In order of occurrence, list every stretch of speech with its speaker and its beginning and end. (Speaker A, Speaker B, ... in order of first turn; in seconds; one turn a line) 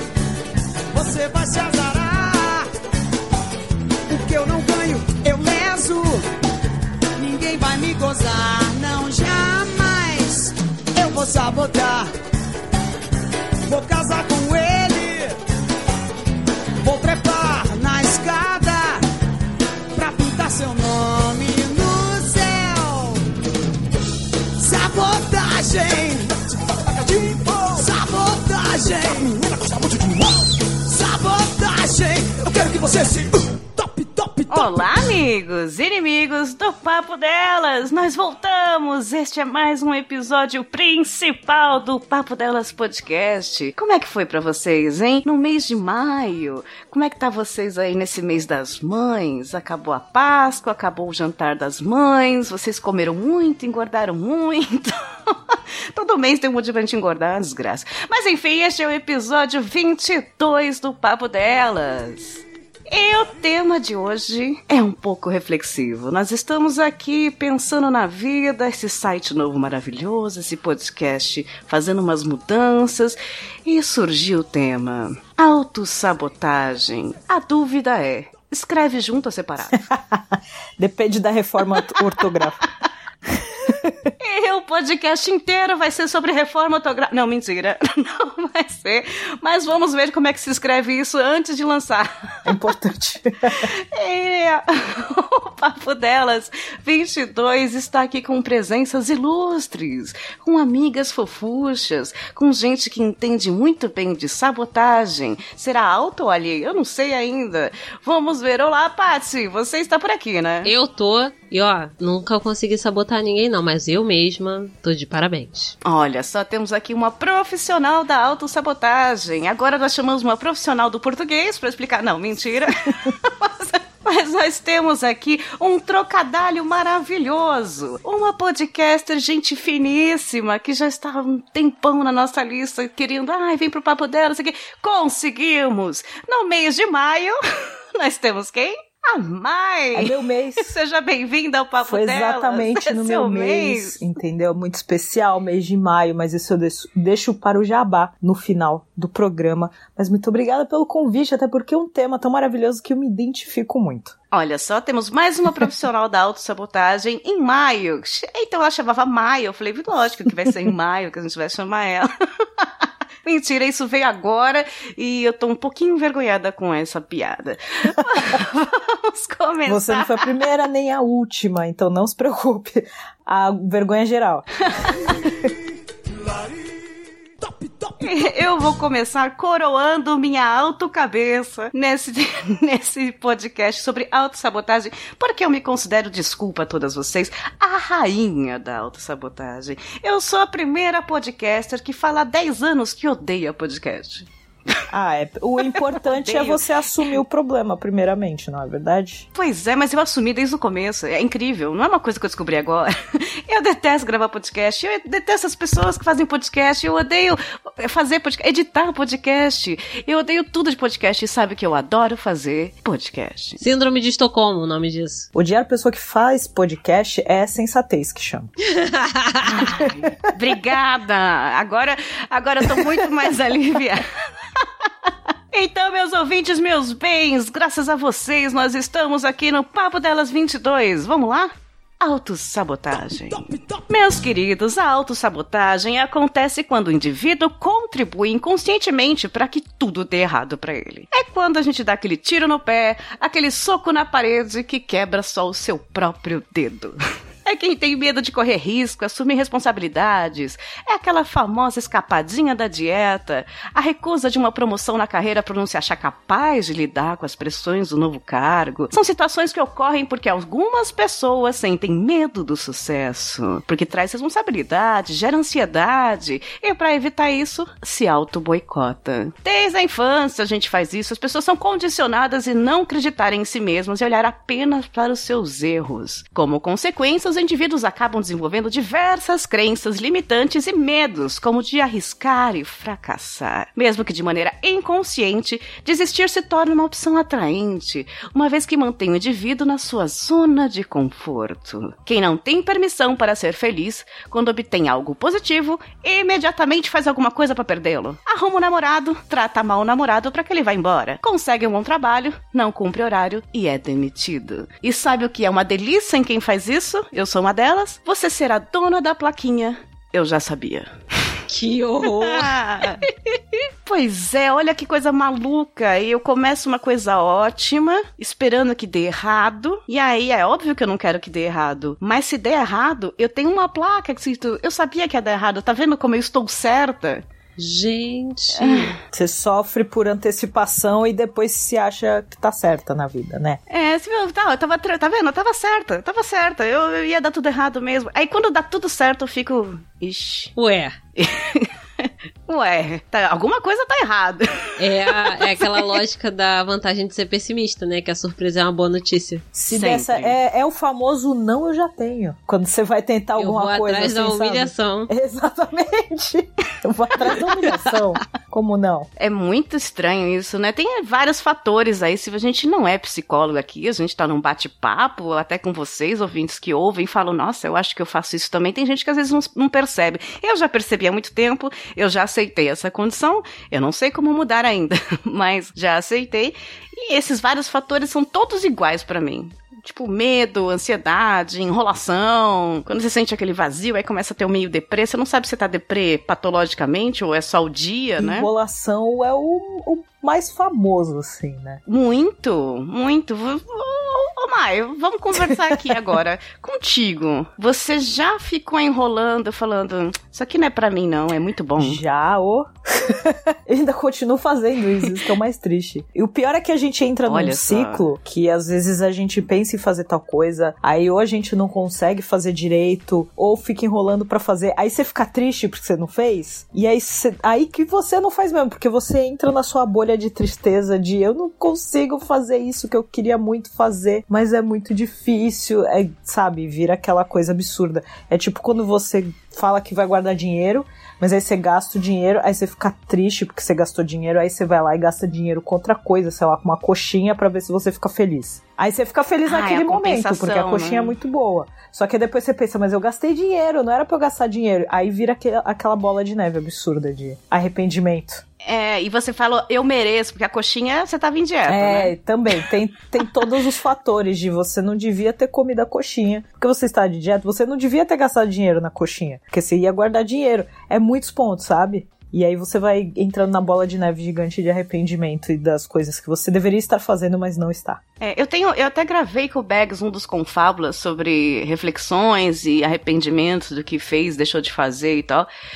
Speaker A: 0.9-2.7
Speaker A: 4.1-6.3
Speaker A: 7.2-12.1
Speaker A: 13.7-15.4
Speaker A: 16.8-19.0
Speaker A: 19.9-23.2
Speaker A: 24.6-34.9
Speaker B: 34.5-79.8
Speaker C: 79.7-82.6
Speaker C: 83.3-84.1
Speaker B: 84.2-92.5
Speaker C: 92.5-93.7
Speaker B: 93.6-110.7
Speaker D: 110.6-115.8
Speaker B: 115.8-137.4
Speaker B: 137.9-144.0
Speaker C: 139.9-140.7
Speaker C: 141.8-154.2
Speaker B: 154.3-162.1
Speaker B: 163.2-170.4
Speaker C: 169.7-174.5
Speaker B: 174.7-175.0
Speaker A: 174.9-176.8
Speaker A: 177.4-178.1
Speaker B: 178.0-194.8
Speaker C: 194.9-199.2
Speaker B: 195.7-196.6
Speaker B: 199.3-213.6
Speaker D: 213.6-215.3
Speaker C: 215.3-218.5
Speaker D: 218.8-219.7
Speaker B: 219.5-224.1
Speaker C: 219.7-220.1
Speaker B: 225.5-310.9
Speaker A: 233.0-233.9
Speaker D: 311.5-313.1
Speaker B: 312.2-313.1
Speaker B: 313.9-327.2
Speaker D: 327.6-328.9
Speaker B: 328.6-328.9
Speaker C: 329.1-333.6
Speaker B: 333.7-340.5
Speaker D: 340.6-340.9
Speaker B: 341.2-346.0
Speaker D: 344.8-349.4
Speaker C: 349.5-359.1
Speaker B: 349.7-350.3
Speaker D: 353.4-355.1
Speaker B: 359.2-388.5
Speaker C: 388.2-391.8
Speaker B: 391.9-402.0
Speaker C: 401.8-448.4
Speaker B: 407.3-408.0
Speaker B: 439.4-441.1
Speaker B: 448.6-452.1
Speaker C: 451.7-468.0
Speaker B: 468.2-475.5